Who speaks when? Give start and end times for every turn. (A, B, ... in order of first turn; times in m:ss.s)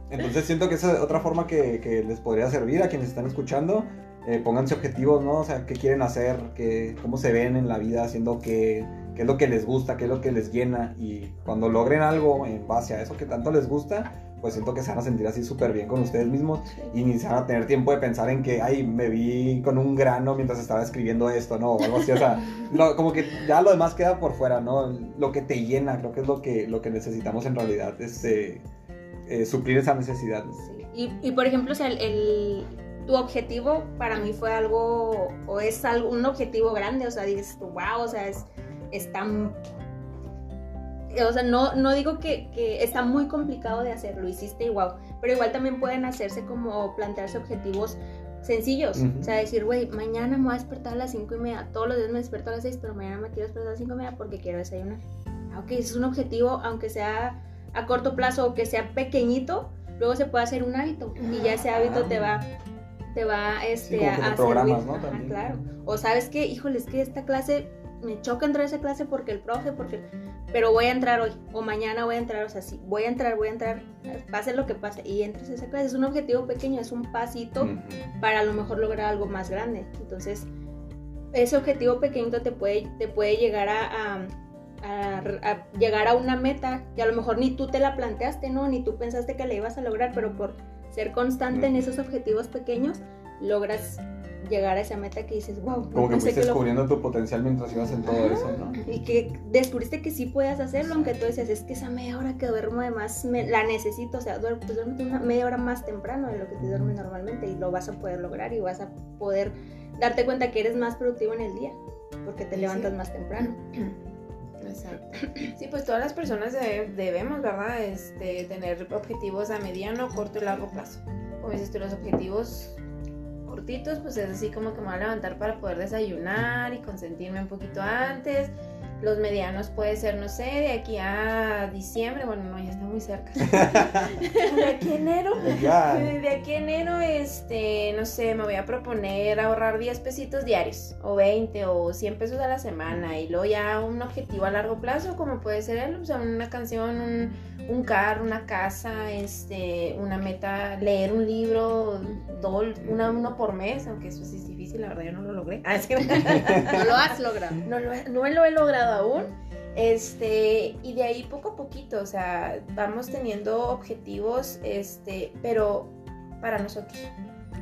0:00.1-0:28.6 A
0:29.3-0:30.6 A
0:30.6-0:39.6 B
0:41.1-1:02.5 B
0:49.0-0:49.3 A
1:01.3-1:01.5 C
1:01.5-1:02.3 A
1:03.1-1:20.5 B
1:03.8-1:05.6 A
1:17.6-1:18.1 A
1:21.3-1:36.6 B
1:35.9-1:38.8 A
1:38.0-1:38.8 C
1:38.8-1:53.6 B
1:40.8-1:41.1 A
1:46.7-1:46.9 A
1:52.5-1:54.0 C
1:54.6-2:02.8 C
1:55.2-1:55.5 B
2:03.5-2:37.1 C
2:13.4-2:14.2 A
2:15.4-2:16.2 A
2:32.0-2:32.6 B
2:32.8-2:33.1 A
2:36.4-2:36.8 A
2:36.6-2:37.6 B
2:37.6-2:47.1 C